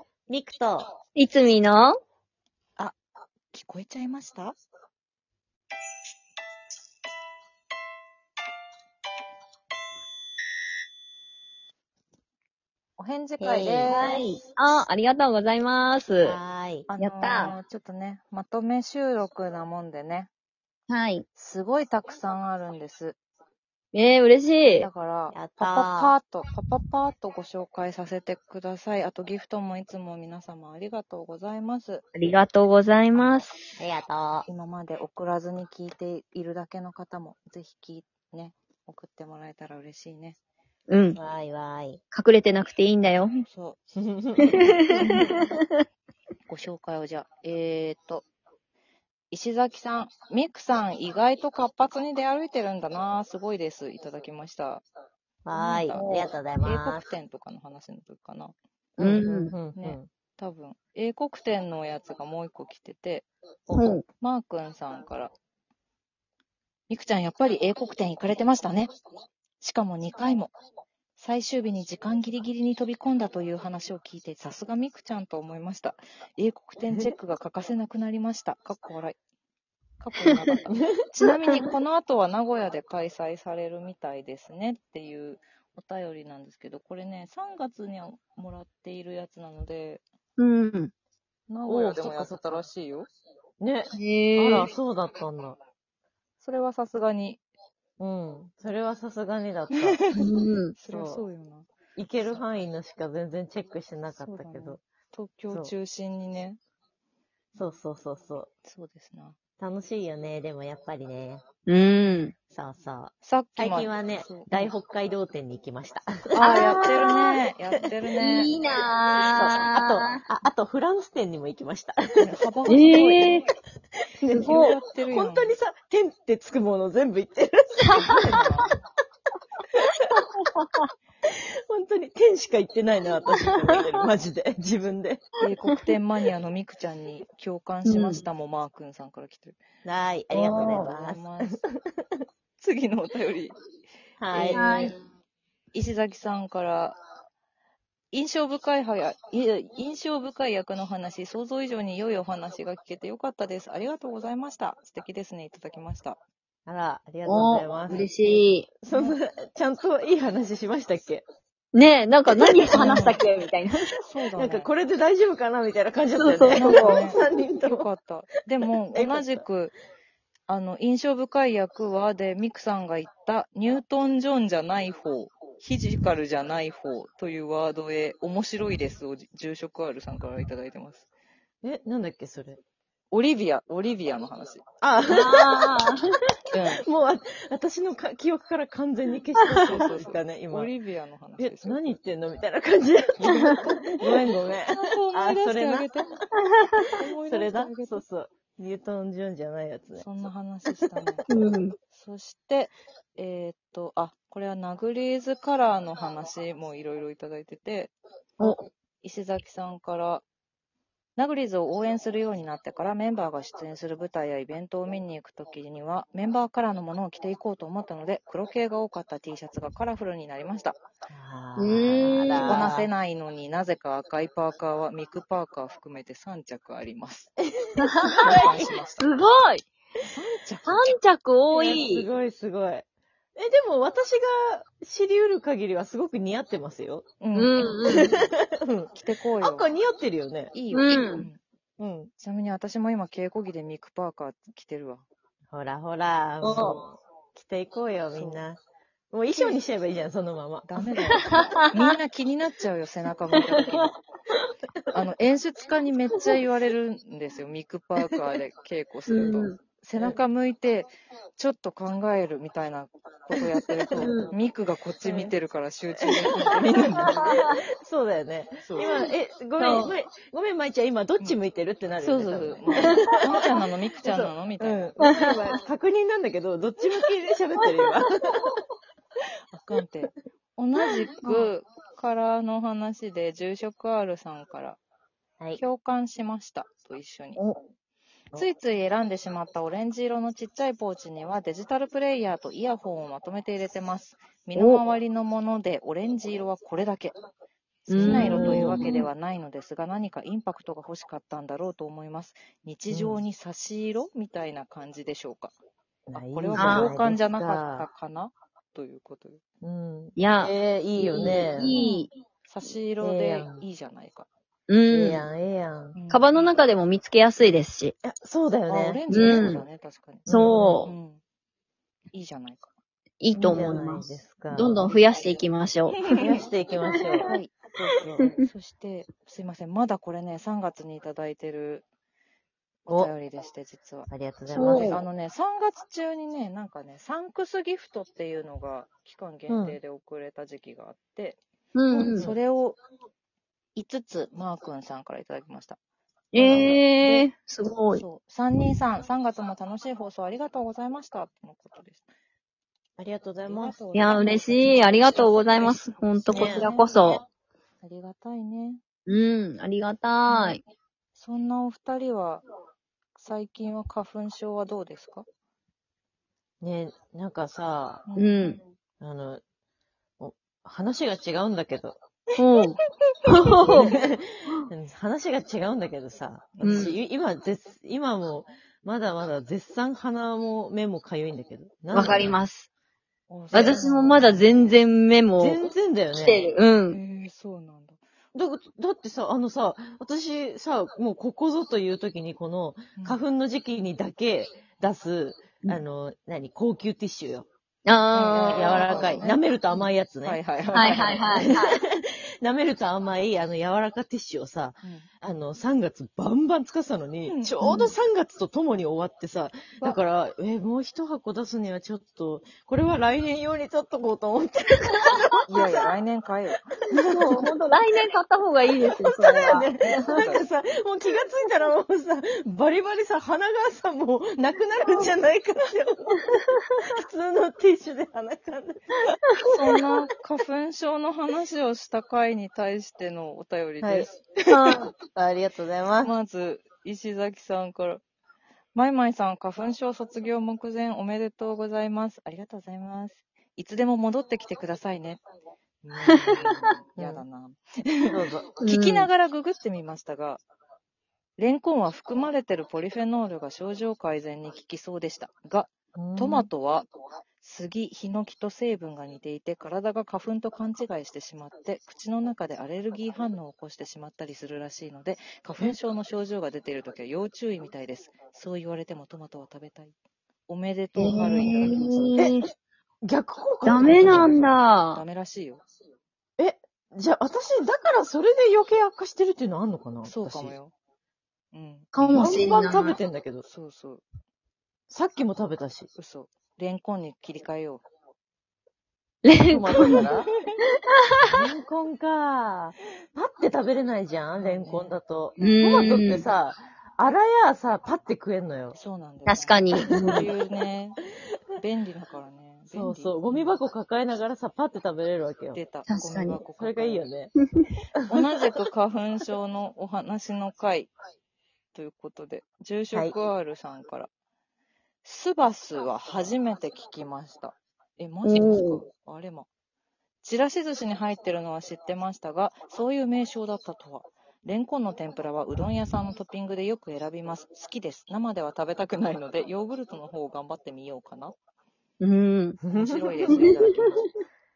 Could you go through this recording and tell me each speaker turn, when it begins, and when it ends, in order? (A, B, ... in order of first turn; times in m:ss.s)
0:00.3-0:00.9 A
0:01.2-0:02.0 B
0:03.5-0:04.6 C
0:13.0-0:14.2 C
0:13.4-0:14.2 A
0:13.9-0:16.4 B
0:16.2-0:16.9 A
0:16.9-0:20.3 C
0:17.0-0:17.6 B
0:20.9-0:21.2 B
0:21.4-0:23.2 C
0:23.9-0:24.9 B
0:24.7-0:32.0 C
0:25.3-0:26.2 A
0:32.2-0:33.6 B
0:33.1-0:33.5 C
0:33.8-0:34.5 A
0:34.5-0:40.4 C
0:40.9-0:41.2 B
0:41.2-0:42.0 A
0:42.1-0:43.4 B
0:43.3-0:43.8 C
0:44.0-0:44.8 A
0:44.4-0:45.8 B
0:44.9-0:45.4 C
0:46.5-0:48.3 C
0:49.3-0:54.8 C
0:55.4-0:57.0 A
0:55.5-0:58.6 C
0:55.9-0:56.3 B
0:59.0-1:00.1 A
0:59.0-0:59.6 B
0:59.8-1:03.3 C
1:03.7-1:04.0 A
1:03.7-1:04.0 B
1:04.2-1:05.3 C
1:06.9-1:08.9 C
1:09.6-1:10.5 C
1:11.2-1:19.2 C
1:20.0-1:30.0 C
1:30.4-1:30.9 B
1:31.5-1:33.1 C
1:31.7-1:32.6 A
1:33.6-1:35.6 A
1:33.9-1:34.7 B
1:36.4-1:37.4 C
1:38.0-1:40.0 A
1:39.8-1:41.7 C
1:40.1-1:40.8 B
1:40.9-1:41.2 A
1:42.0-1:44.8 A
1:44.2-1:46.6 C
1:47.6-1:48.5 A
1:48.6-1:49.4 C
1:49.6-1:51.4 A
1:51.7-1:52.3 B
1:52.5-1:57.2 A
1:53.2-1:54.7 C
1:56.3-1:58.5 C
1:56.4-1:57.3 B
1:58.2-2:00.2 B
1:59.3-2:02.3 A
2:02.2-2:03.3 C
2:02.7-2:03.5 B
2:04.2-2:08.7 A
2:04.3-2:04.8 B
2:04.4-2:05.6 C
2:07.9-2:08.2 B
2:07.9-2:08.7 C
2:09.8-2:10.9 B
2:11.3-2:15.2 A
2:13.4-2:14.0 B
2:15.4-2:19.6 C
2:17.8-2:18.2 B
2:19.8-2:22.0 A
2:20.3-2:20.9 B
2:20.6-2:21.6 C
2:22.6-2:23.6 C
2:24.2-2:24.9 A
2:24.3-2:24.9 C
2:24.5-2:25.0 B
2:25.7-2:27.0 C
2:28.1-2:36.2 C
2:36.7-2:41.2 A
2:37.2-2:38.7 B
2:38.9-2:39.2 C
2:41.7-2:44.0 B
2:42.7-2:43.2 C
2:44.0-2:44.7 C
2:44.4-2:47.9 A
2:46.2-2:47.0 B
2:46.5-2:49.7 C
2:48.9-2:49.4 A
2:50.5-3:01.1 C
3:01.6-3:02.6 A
3:03.1-3:04.6 C
3:04.8-3:05.8 A
3:05.1-3:06.0 B
3:06.5-3:06.8 C
3:06.8-3:10.7 A
3:09.6-3:11.9 C
3:11.4-3:15.9 A
3:14.7-3:16.1 C
3:16.6-3:16.9 B
3:17.0-3:18.0 C
3:17.3-3:20.0 A
3:20.0-3:21.3 C
3:21.3-3:21.7 B
3:21.9-3:30.2 C
3:28.4-3:28.6 B
3:31.2-3:40.8 C
3:41.1-3:42.9 A
3:41.6-3:42.7 B
3:42.4-3:47.3 C
3:47.8-3:48.4 B
3:48.1-3:49.2 C
3:48.2-3:48.7 A
3:49.0-3:49.6 B
3:50.1-3:51.0 C
3:50.7-3:52.1 B
3:51.5-3:52.8 A
3:53.4-3:57.1 A
3:57.2-3:58.0 C
3:57.4-3:58.2 B
3:57.9-4:00.6 A
3:58.9-3:59.7 C
4:00.5-4:01.4 C
4:00.7-4:01.3 B
4:01.8-4:02.1 A
4:02.2-4:05.0 C
4:05.5-4:08.6 A
4:06.4-4:06.8 B
4:08.2-4:08.4 C
4:09.1-4:10.7 A
4:09.3-4:09.6 C
4:10.7-4:13.9 C
4:11.3-4:11.7 B
4:13.4-4:13.9 B
4:14.9-4:27.4 C
4:19.1-4:19.6 B
4:23.9-4:24.2 A
4:24.0-4:24.3 B
4:25.0-4:25.3 A
4:26.0-4:33.5 A
4:27.0-4:27.6 B
4:28.6-4:28.9 C
4:29.6-4:29.9 B
4:32.0-4:34.9 C
4:32.7-4:33.2 B
4:34.0-4:38.6 A
4:35.0-4:35.6 B
4:37.6-4:37.9 B
4:39.5-4:44.8 C
4:41.2-4:41.5 B
4:45.6-4:47.4 C
4:48.4-4:57.1 C
4:54.6-4:54.8 B
4:57.9-5:05.5 C
4:57.9-4:59.1 B
4:58.0-4:58.9 A
5:02.9-5:03.2 A
5:06.1-5:07.9 A
5:06.1-5:09.4 C
5:06.5-5:06.9 B
5:09.6-5:11.8 A
5:10.2-5:12.1 B
5:11.2-5:14.3 C
5:13.0-5:13.6 A
5:14.7-5:15.2 B
5:14.9-5:16.0 A
5:16.0-5:16.5 C
5:16.1-5:17.9 B
5:18.0-5:19.4 A
5:18.7-5:20.3 C
5:19.1-5:19.6 B
5:20.3-5:20.8 A
5:20.3-5:20.9 B
5:20.8-5:21.2 C
5:22.1-5:22.7 C
5:23.2-5:26.1 B
5:23.3-5:24.9 A
5:26.0-5:26.4 C
5:26.1-5:27.3 A
5:27.0-5:27.4 B
5:27.3-5:31.8 C
5:32.9-5:41.4 C
5:34.1-5:34.9 A
5:34.5-5:35.0 B
5:39.5-5:39.8 A
5:41.8-5:42.3 B
5:41.9-5:42.8 C
5:42.1-5:42.4 A
5:43.8-5:45.8 C
5:46.3-5:48.0 B
5:46.4-5:47.3 C
5:47.9-5:52.0 C
5:53.0-5:53.8 A
5:53.5-5:57.2 C
5:53.9-5:57.2 B
5:56.3-5:56.7 A
5:57.8-5:58.8 C
5:59.1-6:00.6 B
6:00.3-6:00.6 C
6:01.2-6:02.4 C
6:03.2-6:05.2 C
6:06.6-6:08.0 A
6:08.1-6:08.6 C
6:08.2-6:08.6 B
6:09.0-6:09.4 A
6:10.2-6:12.0 A
6:12.4-6:13.9 B
6:13.6-6:14.0 C
6:13.7-6:22.4 A
6:16.6-6:17.0 C
6:16.6-6:17.0 B
6:21.9-6:22.7 B
6:23.3-6:24.7 C
6:23.5-6:27.0 B
6:25.4-6:26.4 A
6:26.9-6:28.0 C
6:28.3-6:37.5 A
6:33.0-6:33.2 C
6:37.9-6:39.2 B
6:38.1-6:41.5 C
6:38.5-6:40.4 A
6:40.7-6:41.8 B
6:41.3-6:55.9 A
6:47.3-6:47.9 C
6:47.6-6:47.9 B
6:55.5-6:56.6 C
6:57.0-6:59.7 B
6:57.0-6:57.5 A
6:58.8-7:09.2 A
6:59.8-7:00.4 C
7:09.4-7:14.2 C
7:13.8-7:16.1 A
7:14.5-7:14.9 B
7:16.0-7:18.0 C
7:18.8-7:25.2 C
7:25.8-7:27.6 C
7:26.0-7:26.5 B
7:27.0-7:27.2 A
7:28.1-7:28.5 A
7:28.6-7:29.1 B
7:28.6-7:30.4 C
7:31.4-7:36.9 C
7:36.0-7:36.5 A
7:37.4-7:49.9 C
7:50.5-7:52.2 C
7:51.0-7:52.5 B
7:53.0-7:54.4 A
7:53.6-7:55.0 B
7:53.8-7:55.6 C
7:56.4-8:00.6 A
8:00.0-8:00.7 C
8:01.5-8:02.3 C
8:01.9-8:03.0 B
8:02.1-8:03.4 A
8:03.4-8:04.0 C
8:04.9-8:05.9 A
8:06.0-8:07.8 C
8:09.2-8:10.1 B
8:09.5-8:10.3 A
8:09.7-8:10.2 C
8:11.2-8:18.8 A
8:14.4-8:15.8 C
8:15.4-8:16.3 B
8:18.8-8:21.0 C
8:19.2-8:20.3 B
8:19.9-8:20.3 A
8:21.6-8:23.6 C
8:22.7-8:25.6 A
8:25.6-8:27.1 C
8:25.9-8:26.4 B
8:26.6-8:27.3 A
8:28.1-8:30.9 C
8:31.7-8:34.1 C
8:32.9-8:33.2 A
8:35.0-8:39.5 C
8:38.2-8:38.8 B
8:40.2-8:51.4 C
8:52.0-8:52.6 B
8:52.6-8:53.4 A
8:52.8-8:54.1 C
8:53.3-8:54.0 B